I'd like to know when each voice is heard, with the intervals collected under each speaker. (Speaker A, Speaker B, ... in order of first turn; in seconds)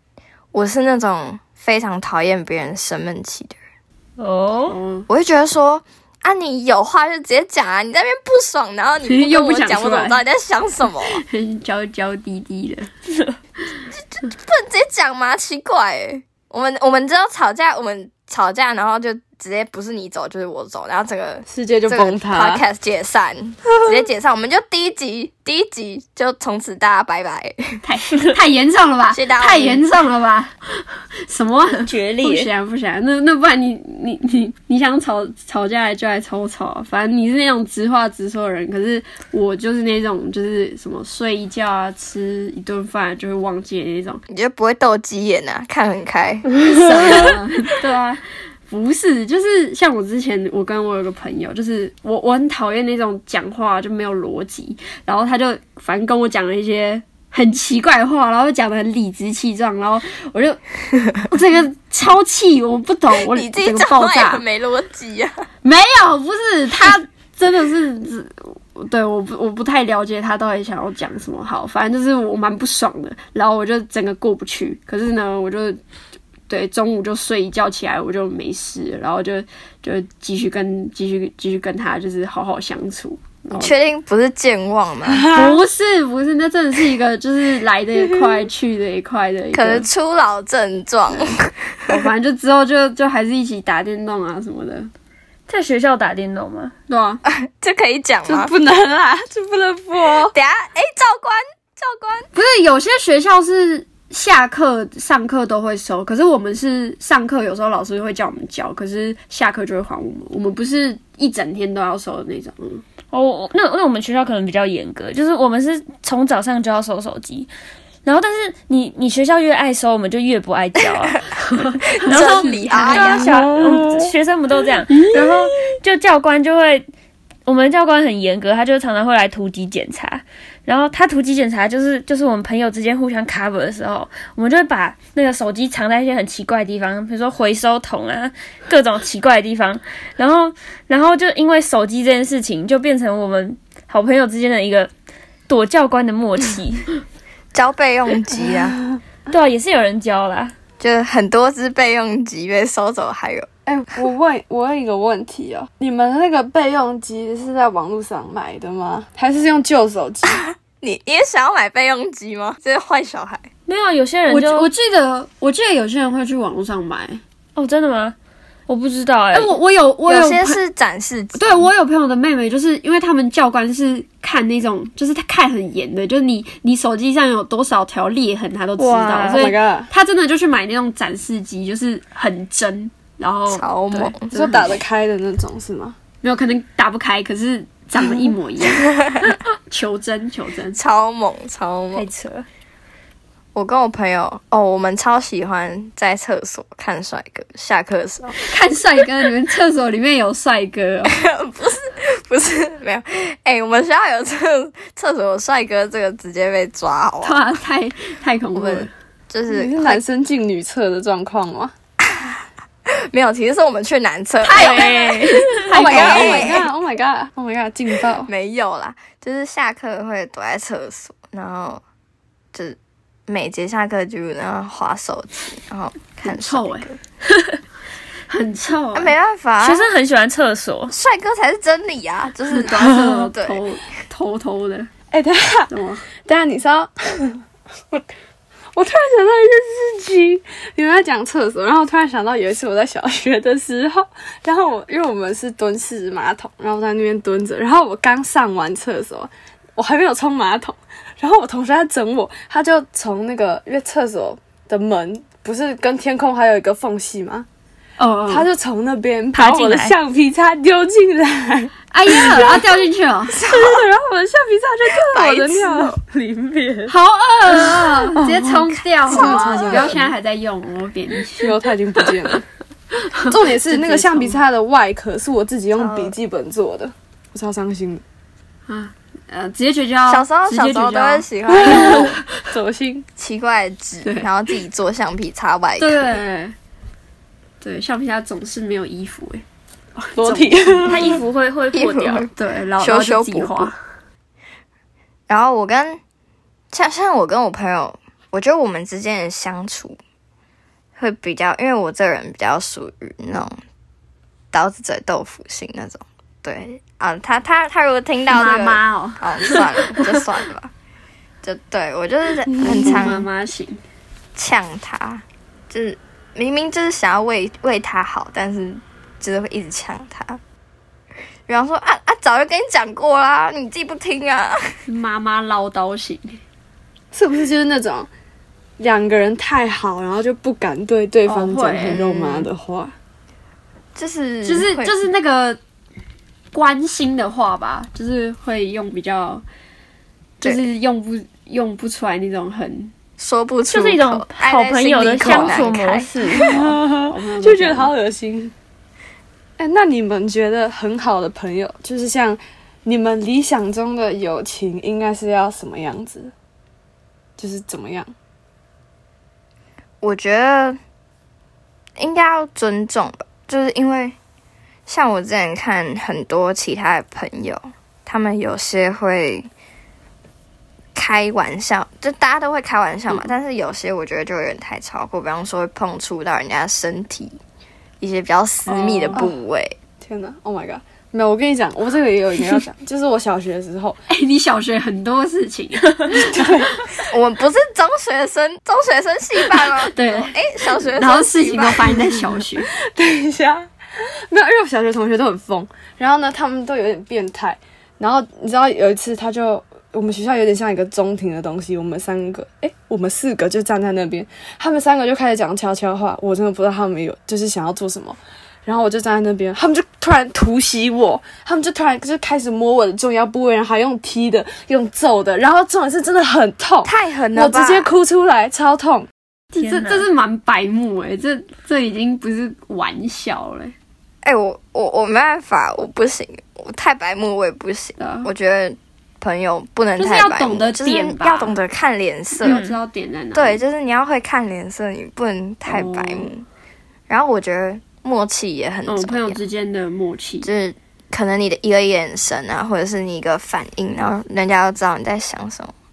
Speaker A: 0.5-3.6, 5.1-11.2, 13.9-27.8, 29.1-29.8, 44.3-47.3, 63.2-65.5, 83.5-85.3, 89.5-92.1, 97.2-98.5, 100.3-102.3, 122.0-123.5, 147.5-148.8, 150.8-153.5, 160.3-163.5, 170.1-171.7, 183.5-184.3, 188.6-189.4, 190.8-192.1, 193.5-198.5, 201.1-207.4, 208.5-210.0, 212.0-216.7, 218.2-221.8, 222.5-227.0, 228.9-229.9, 230.9-233.6, 263.3-263.8, 264.9-266.0, 269.1-269.9, 275.8-276.1, 280.1-282.2, 283.2-286.2, 291.7-293.7, 295.3-296.0, 296.7-300.0, 301.0-303.6, 304.5-310.7, 311.4-313.3, 314.4-320.4, 321.5-324.8, 331.9-332.5, 333.9-334.9, 343.2-346.1, 360.0-360.8, 362.0-364.1, 364.9-369.5, 370.9-377.4, 378.0-379.8, 387.0-392.1, 416.8-417.9, 424.2-432.6, 433.3-436.4, 437.1-439.4, 440.4-445.7
Speaker B: 4.2-4.8, 31.9-32.5, 95.5-96.7, 113.1-117.5, 118.0-121.2, 121.9-126.8, 127.5-144.9, 145.5-146.9, 149.3-150.5, 163.7-164.7, 167.6-168.1, 168.7-169.5, 178.8-179.5, 191.9-192.4, 214.5-216.3, 229.6-230.9, 259.3-259.9, 290.9-292.3, 343.7-346.5, 419.6-420.1, 432.4-432.8
Speaker C: 4.7-5.1, 9.0-10.2, 11.1-12.9, 27.8-44.2, 46.7-60.6, 61.2-64.4, 65.6-75.8, 76.5-83.7, 85.3-89.9, 91.9-94.9, 96.9-97.2, 102.3-112.8, 121.4-123.2, 164.3-167.2, 169.3-170.6, 171.3-184.8, 186.2-188.9, 189.7-190.8, 198.4-201.2, 207.2-208.9, 214.4-216.5, 226.2-226.9, 228.3-229.1, 232.5-234.9, 235.7-236.1, 258.0-258.5, 261.9-263.4, 266.9-271.5, 273.1-274.4, 278.7-282.4, 284.0-284.3, 285.8-286.6, 287.6-289.4, 290.0-291.1, 292.3-293.8, 308.3-310.2, 312.6-313.8, 324.9-326.4, 331.2-332.0, 334.4-335.6, 336.5-339.4, 340.4-342.9, 345.2-345.7, 346.4-347.9, 378.6-379.3, 384.1-386.5, 389.5-392.7, 419.5-423.7, 428.0-428.3, 430.0-431.6, 432.4-433.6, 435.6-436.3, 438.9-440.5
Speaker D: 21.5-22.6, 85.0-85.6, 98.2-100.3, 123.0-124.1, 153.7-160.4, 179.3-179.9, 184.3-186.0, 209.5-211.7, 215.7-218.3, 235.1-238.0, 238.7-257.5, 258.3-262.6, 263.4-266.9, 267.5-270.1, 271.4-272.4, 273.2-278.0, 281.5-283.1, 290.2-291.2, 312.5-313.1, 327.1-328.1, 328.8-332.9, 346.2-348.5, 349.6-356.3, 357.4-358.1, 380.0-384.0, 386.1-386.7, 392.8-419.1